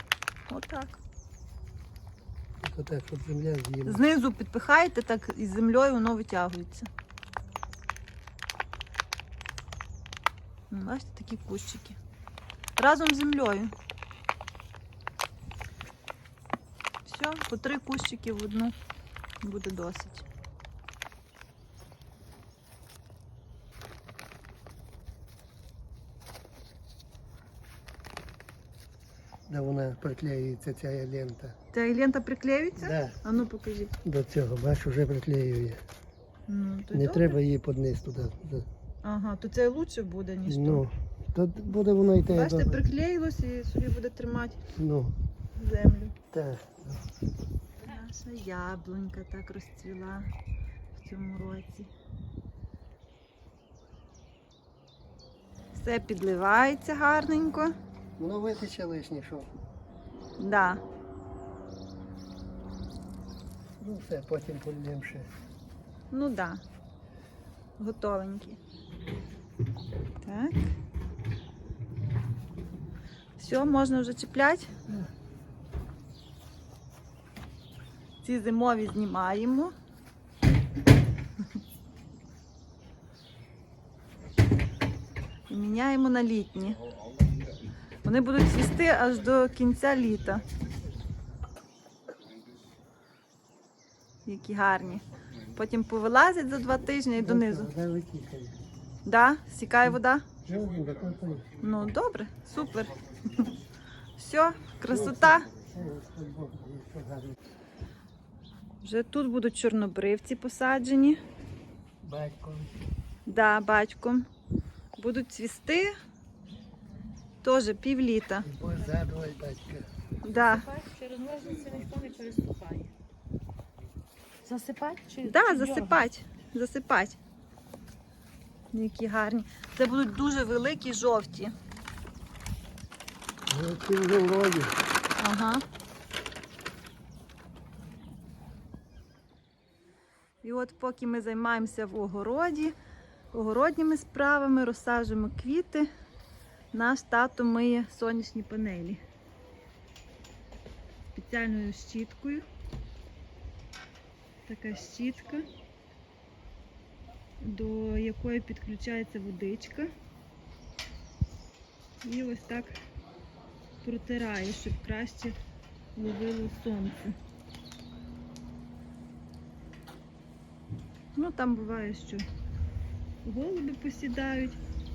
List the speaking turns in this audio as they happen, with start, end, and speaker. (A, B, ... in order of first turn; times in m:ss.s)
0:00.5-0:01.0 A
0:02.6-0:04.0 B
0:03.8-0:06.9 A
0:10.7-0:12.0 A
0:12.8-0:13.7 A
0:17.0-0:18.7 A
0:19.4-0:20.2 A
0:29.5-0:31.6 B
0:31.7-0:33.9 A
0:32.8-0:33.2 B
0:34.0-0:35.8 B
0:36.5-0:37.4 A
0:36.9-0:38.7 B
0:39.0-0:40.8 A
0:40.5-0:42.8 B
0:42.3-0:44.6 A
0:44.7-0:45.2 B
0:45.5-0:46.2 A
0:46.3-0:47.0 B
0:47.8-0:50.3 A
0:50.9-0:51.9 A
0:55.7-0:57.7 A
0:58.2-0:59.5 B
1:00.4-1:00.8 A
1:03.8-1:05.3 B
1:06.1-1:06.6 A
1:07.8-1:08.6 A
1:10.2-1:10.6 A
1:13.4-1:14.9 A
1:18.2-1:19.7 A
1:25.5-1:26.8 A
1:28.0-1:30.4 A
1:34.2-1:37.7 A
1:37.2-1:38.6 B
1:39.0-1:40.3 A
1:40.4-1:41.5 B
1:41.6-1:43.5 A
1:44.2-1:45.5 A
1:44.9-1:47.4 B
1:48.8-1:51.2 A
1:52.0-1:52.8 B
1:53.2-1:54.3 A
1:55.0-1:55.9 A
1:57.4-1:58.5 A
1:58.4-1:59.9 B
2:00.2-2:00.7 A
2:00.4-2:02.9 C
2:04.4-2:06.0 C
2:05.2-2:07.2 A
2:08.7-2:11.5 A
2:13.5-2:14.8 B
2:15.2-2:15.6 A
2:20.4-2:22.7 A
2:23.3-2:25.9 A
2:26.7-2:29.0 A
2:31.1-2:32.4 A
2:34.4-2:35.5 A
2:37.4-2:39.9 A
2:42.0-2:42.8 A
2:43.8-2:45.4 A
2:46.0-2:47.2 A
2:51.2-2:52.3 A
2:53.2-2:54.6 A